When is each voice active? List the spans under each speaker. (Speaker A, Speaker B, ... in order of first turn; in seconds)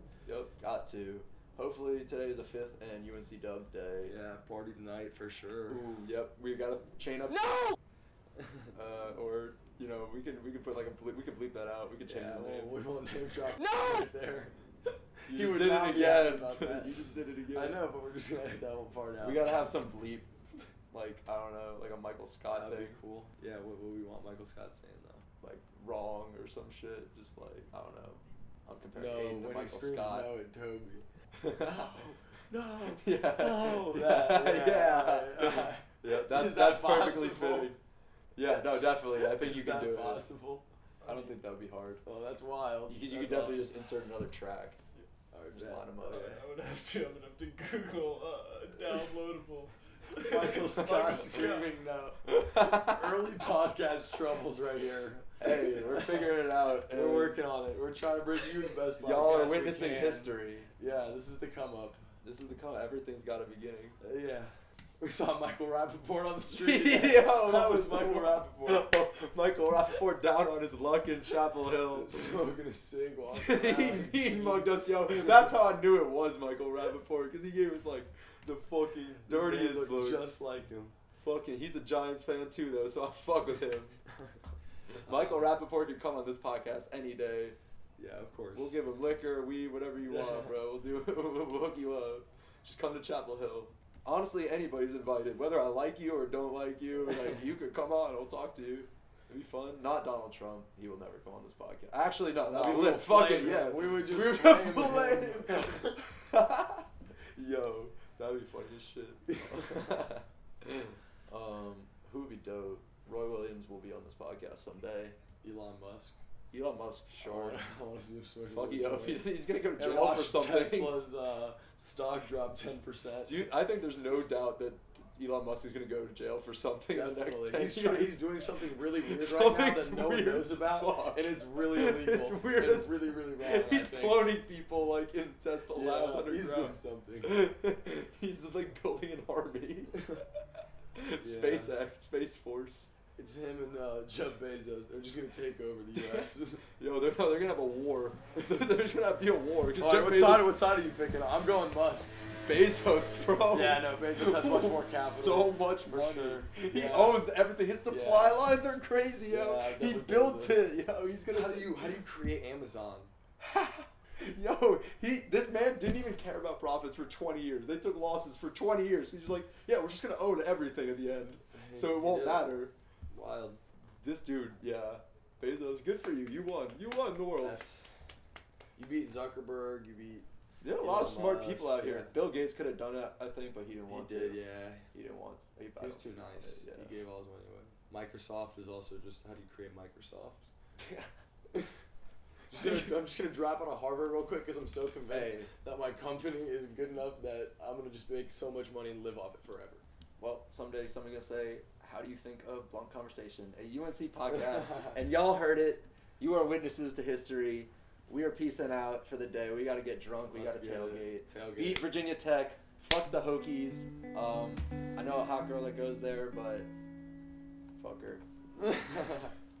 Speaker A: 0.2-4.1, 5.7-7.8, 8.7-12.8, 15.3-17.8, 19.2-20.3, 20.9-23.0, 25.4-30.3, 31.4-32.1, 32.8-37.8, 38.4-40.3, 41.0-42.0, 42.9-44.8, 45.5-46.4, 50.8-51.3, 52.3-53.2, 55.4-57.4, 59.0-60.7, 62.2-64.0, 66.5-72.4, 73.3-80.3, 81.2-84.0, 85.0-87.6, 88.5-115.2, 116.5-117.6, 118.5-121.0, 123.2-140.2, 140.9-142.9, 145.9-150.5, 152.4-162.0, 163.4-172.7, 174.0-177.6, 180.6-186.9, 192.6-192.8, 195.1-195.5, 200.2-216.7, 217.8-218.2
Speaker B: 4.0-5.8, 12.1-14.5, 15.3-19.7, 22.5-25.2, 28.9-31.1, 31.7-37.8, 38.4-40.6, 42.0-43.8, 45.3-46.4, 50.2-62.0, 64.0-68.9, 71.9-75.5, 79.2-80.9, 88.0-88.8, 90.1-90.4, 102.5-105.8, 109.3-110.0, 115.4-116.2, 117.2-123.4, 126.9-134.4, 135.7-137.3, 139.9-140.2, 141.2-141.7, 143.2-146.6, 149.8-152.1, 153.5-157.3, 157.8-158.4, 159.3-163.1, 171.5-173.6, 177.4-177.9, 178.8-180.3, 180.8-182.1, 183.9-184.9, 185.8-190.5, 192.5-199.8, 204.3-205.0, 210.3-211.9, 218.6-219.3
Speaker C: 46.0-51.7